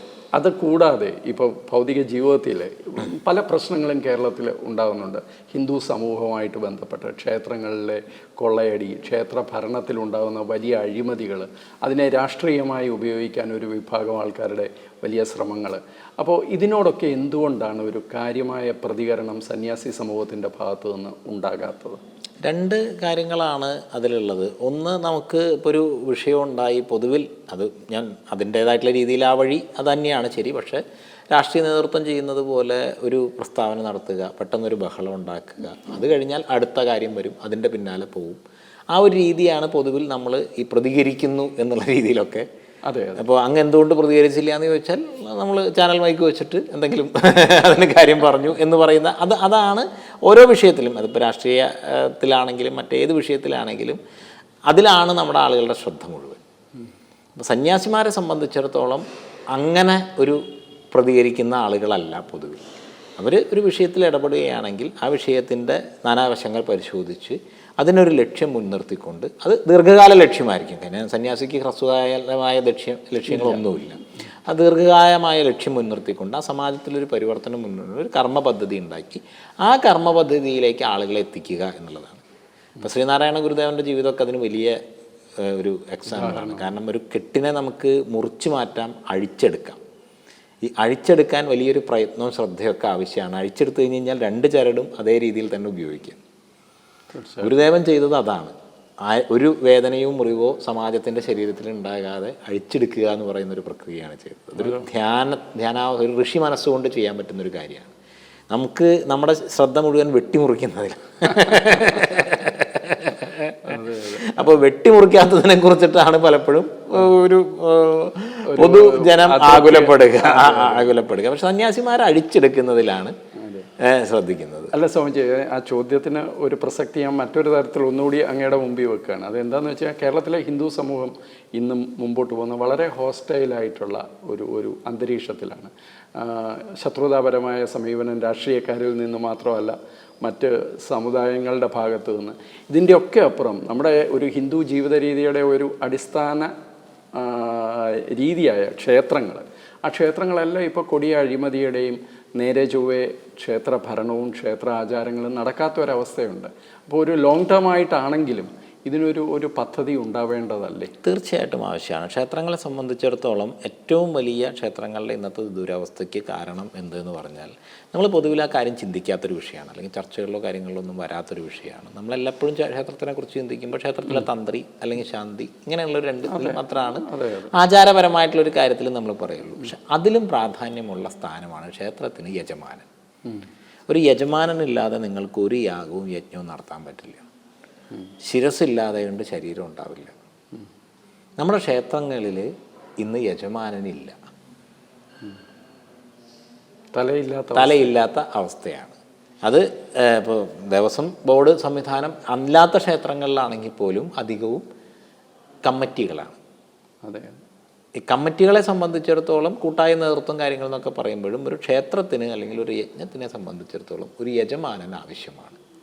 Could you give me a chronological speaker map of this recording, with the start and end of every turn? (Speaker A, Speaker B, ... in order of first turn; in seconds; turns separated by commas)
Speaker A: 0.3-22.0, Speaker B: 22.4-30.8, Speaker B: 31.3-38.4, Speaker B: 38.9-42.5, Speaker A: 42.9-43.2, Speaker B: 43.2-54.0, Speaker B: 54.7-56.4, Speaker B: 57.4-60.4, Speaker B: 60.9-62.6, Speaker B: 63.2-82.2, Speaker A: 73.3-73.6, Speaker B: 82.8-84.8, Speaker B: 85.4-89.8, Speaker A: 86.0-86.7, Speaker B: 90.6-96.2, Speaker A: 97.1-97.5, Speaker B: 97.4-98.5, Speaker B: 99.0-107.9, Speaker A: 104.6-104.9, Speaker B: 108.5-123.1, Speaker A: 113.6-114.5, Speaker A: 118.4-120.9, Speaker B: 123.8-124.7, Speaker A: 124.7-146.5, Speaker A: 147.1-160.9, Speaker B: 161.0-182.8, Speaker A: 176.3-177.5, Speaker B: 183.9-187.2, Speaker B: 188.2-190.1, Speaker B: 191.4-192.5, Speaker B: 193.0-194.2, Speaker A: 196.9-197.9, Speaker B: 197.5-204.6, Speaker B: 205.7-206.3, Speaker A: 207.0-207.4, Speaker B: 208.0-215.6